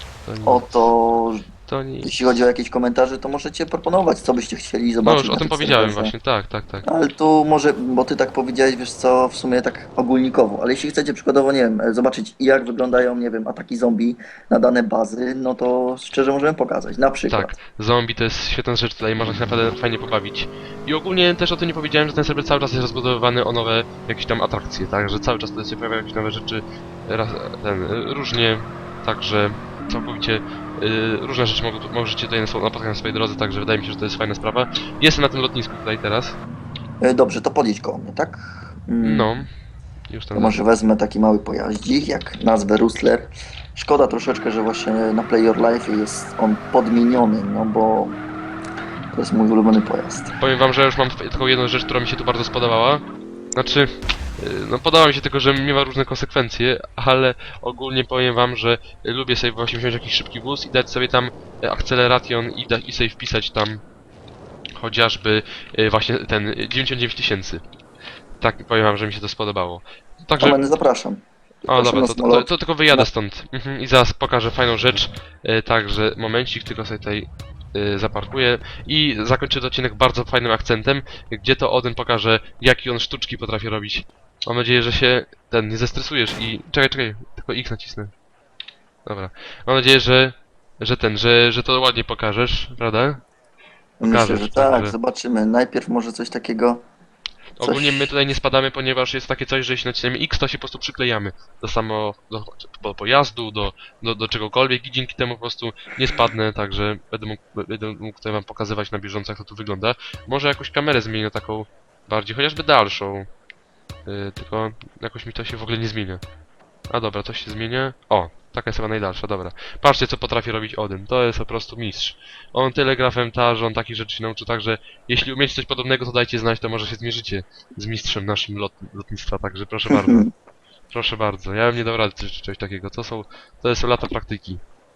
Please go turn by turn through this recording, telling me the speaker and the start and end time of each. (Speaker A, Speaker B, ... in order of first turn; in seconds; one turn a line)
Speaker A: 0.2-0.9
Speaker B: 0.5-1.4
Speaker A: 1.7-2.2
Speaker B: 2.0-6.1
Speaker A: 5.0-6.8
Speaker B: 6.8-17.5
Speaker A: 17.3-36.4
Speaker B: 37.0-39.4
Speaker A: 39.0-39.5
Speaker A: 40.1-40.6
Speaker B: 40.3-48.2
Speaker B: 49.1-50.3
Speaker A: 50.3-53.0
Speaker A: 53.5-63.8
Speaker A: 64.8-67.6
Speaker A: 68.4-70.6
Speaker B: 70.4-73.1
Speaker A: 71.7-88.1
Speaker A: 89.0-93.2
Speaker B: 94.0-96.8
Speaker A: 94.0-94.9
Speaker A: 97.6-113.3
Speaker B: 97.6-98.1
Speaker A: 114.0-116.2
Speaker A: 116.9-130.3
Speaker B: 129.9-130.3
Speaker A: 130.9-134.6